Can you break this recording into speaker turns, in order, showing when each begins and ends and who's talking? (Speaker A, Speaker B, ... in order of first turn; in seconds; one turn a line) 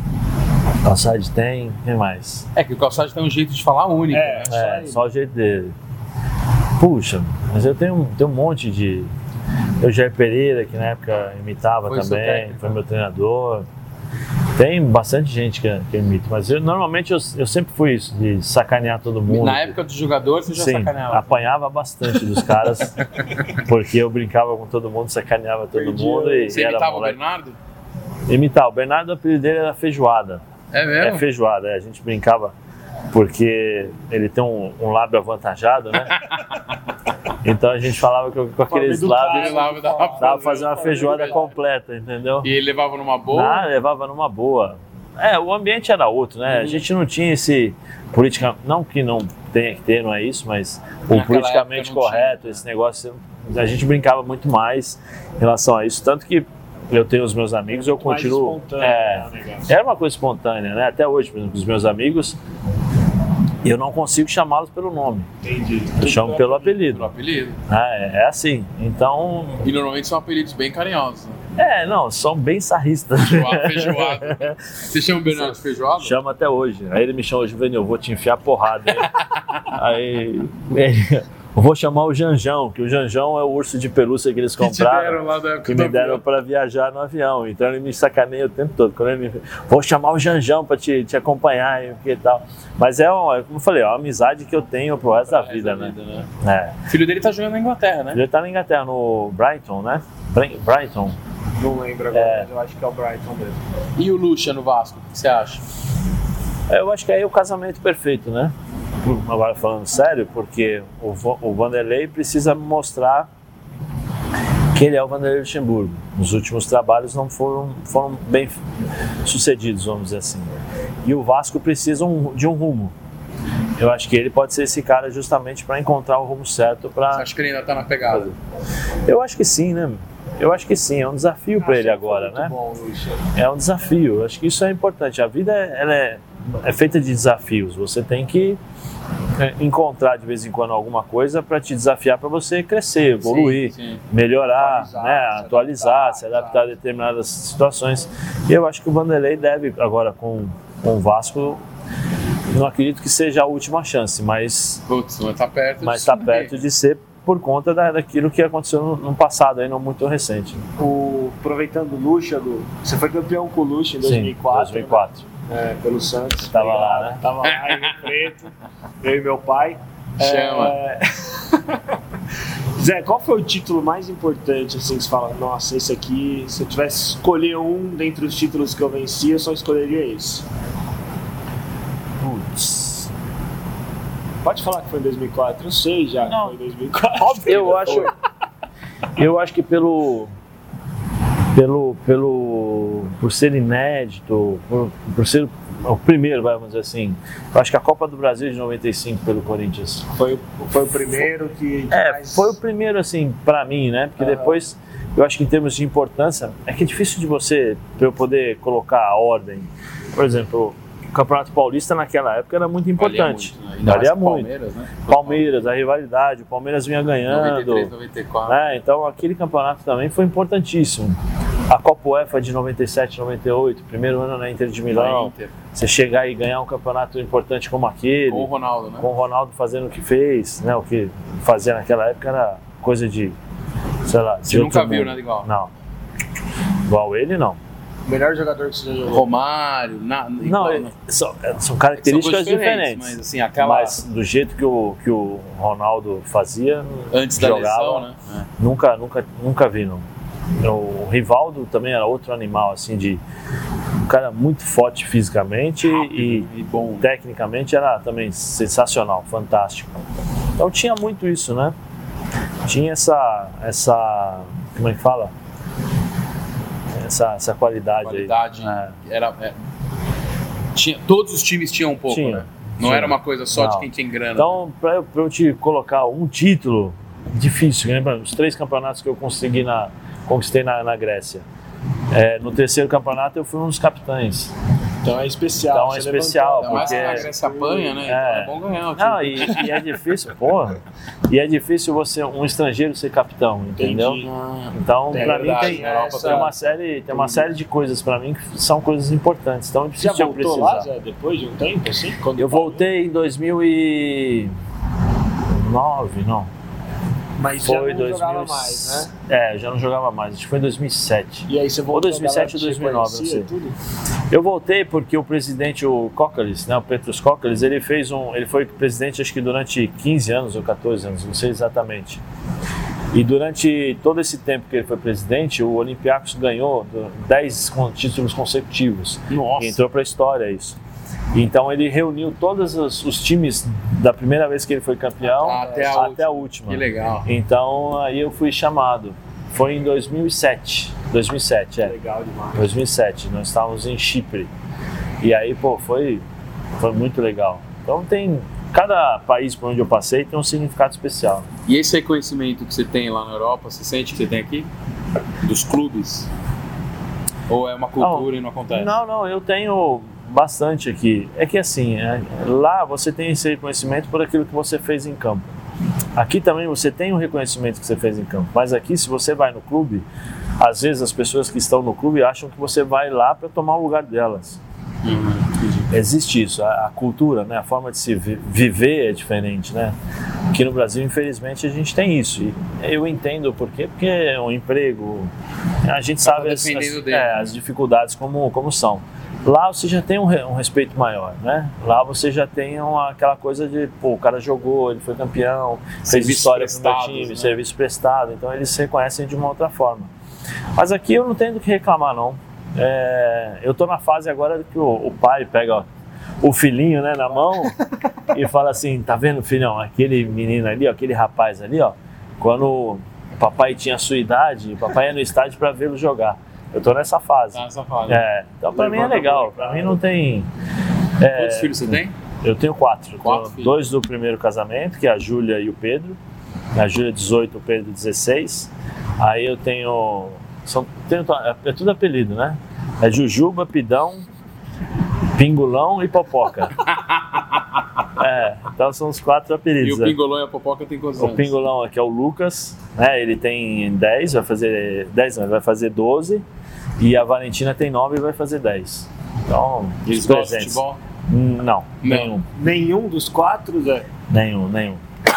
Speaker A: 0.8-2.5
Speaker B: 2.5-4.5
Speaker C: 4.1-5.0
Speaker A: 4.5-5.7
Speaker A: 6.8-9.1
Speaker A: 9.8-13.7
Speaker B: 11.9-12.8
Speaker A: 14.6-19.8
Speaker B: 19.3-21.4
Speaker A: 20.5-23.0
Speaker B: 23.2-23.5
Speaker A: 23.5-27.2
Speaker C: 25.7-26.5
Speaker B: 26.4-27.6
Speaker A: 28.3-30.4
Speaker B: 30.7-31.2
Speaker A: 31.0-32.5
Speaker A: 33.1-36.2
Speaker B: 36.1-36.6
Speaker A: 37.4-39.6
Speaker C: 38.7-41.5
Speaker B: 39.2-41.4
Speaker A: 40.2-42.5
Speaker B: 42.4-43.7
Speaker A: 43.3-62.4
Speaker B: 46.5-46.9
Speaker B: 51.1-52.6
Speaker C: 57.7-59.7
Speaker A: 63.6-65.3
Speaker C: 65.4-66.8
Speaker A: 66.0-67.1
Speaker B: 66.8-67.6
Speaker A: 67.7-69.7
Speaker B: 69.6-71.4
Speaker A: 71.6-74.6
Speaker B: 73.2-76.2
Speaker A: 75.3-96.8
Speaker B: 84.6-86.2
Speaker B: 95.2-96.3
Speaker B: 96.9-98.2
Speaker A: 98.1-101.2
Speaker C: 101.6-103.6
Speaker A: 102.1-102.5
Speaker B: 104.0-105.6
Speaker A: 106.7-113.3
Speaker A: 114.7-118.6
Speaker A: 119.2-122.9
Speaker A: 123.8-127.3
Speaker B: 127.1-128.3
Speaker A: 129.1-132.5
Speaker C: 131.6-133.3
Speaker A: 133.3-138.6
Speaker A: 139.4-151.6
Speaker B: 143.2-144.0
Speaker C: 144.4-146.7
Speaker A: 152.5-154.8
Speaker B: 154.9-156.5
Speaker A: 155.8-160.6
Speaker C: 160.8-171.8
Speaker A: 164.0-165.2
Speaker A: 166.5-167.2
Speaker B: 167.4-168.1
Speaker B: 170.2-170.8
Speaker C: 172.8-180.4
Speaker A: 182.2-183.1
Speaker C: 184.4-188.1
Speaker A: 186.3-186.6
Speaker A: 187.2-188.1
Speaker B: 187.5-188.1
Speaker A: 189.2-190.3
Speaker A: 191.5-200.1
Speaker C: 200.1-202.6
Speaker A: 201.9-214.5
Speaker C: 204.2-204.6
Speaker B: 213.0-215.4
Speaker A: 215.1-217.9
Speaker B: 217.3-218.6
Speaker A: 218.5-221.2
Speaker A: 221.7-233.4
Speaker B: 224.9-225.6
Speaker B: 228.3-229.1
Speaker A: 234.1-235.7
Speaker B: 234.5-235.5
Speaker A: 236.9-237.6
Speaker C: 238.1-239.3
Speaker B: 239.1-240.9
Speaker A: 240.4-250.1
Speaker B: 241.9-244.0
Speaker B: 247.1-248.4
Speaker A: 250.6-253.2
Speaker A: 254.0-256.5
Speaker B: 255.8-257.1
Speaker A: 257.0-260.0
Speaker A: 260.6-261.7
Speaker A: 262.7-265.3
Speaker A: 267.0-268.9
Speaker B: 268.0-269.6
Speaker B: 270.7-274.6
Speaker A: 272.1-281.4
Speaker A: 282.1-284.5
Speaker C: 285.0-288.0
Speaker A: 285.7-287.3
Speaker B: 286.6-289.8
Speaker A: 288.0-300.9
Speaker C: 293.8-294.3
Speaker B: 294.2-296.6
Speaker C: 295.1-296.5
Speaker C: 297.1-297.5
Speaker C: 300.0-302.9
Speaker A: 302.4-304.5
Speaker A: 305.5-306.5
Speaker C: 307.4-309.1
Speaker A: 307.6-313.5
Speaker C: 311.5-313.7
Speaker A: 314.3-322.2
Speaker A: 323.1-330.8
Speaker B: 329.3-329.8
Speaker A: 331.3-341.9
Speaker C: 335.2-336.1
Speaker B: 335.4-337.3
Speaker C: 341.8-342.7
Speaker A: 342.6-344.5
Speaker A: 345.2-346.2
Speaker A: 346.8-351.5
Speaker B: 351.7-354.7
Speaker B: 355.4-356.3
Speaker B: 357.5-358.9
Speaker A: 358.0-365.5
Speaker A: 366.2-370.1
Speaker A: 370.6-374.6
Speaker B: 375.0-375.9
Speaker A: 375.9-379.9
Speaker A: 380.5-385.3
Speaker A: 385.8-400.1
Speaker B: 386.2-387.6
Speaker B: 396.0-397.6
Speaker A: 400.8-405.9
Speaker A: 406.4-420.5
Speaker B: 417.5-418.3
Speaker C: 418.7-420.0
Speaker A: 421.2-426.2
Speaker B: 421.3-422.1
Speaker B: 423.2-423.8
Speaker A: 426.7-434.2
Speaker A: 435.4-436.8
Speaker B: 436.9-437.8
Speaker A: 438.2-440.2
Speaker B: 439.8-441.5
Speaker A: 441.2-446.4
Speaker A: 447.0-452.4
Speaker B: 450.1-451.0
Speaker B: 452.0-452.3
Speaker C: 452.6-454.1
Speaker A: 454.3-455.0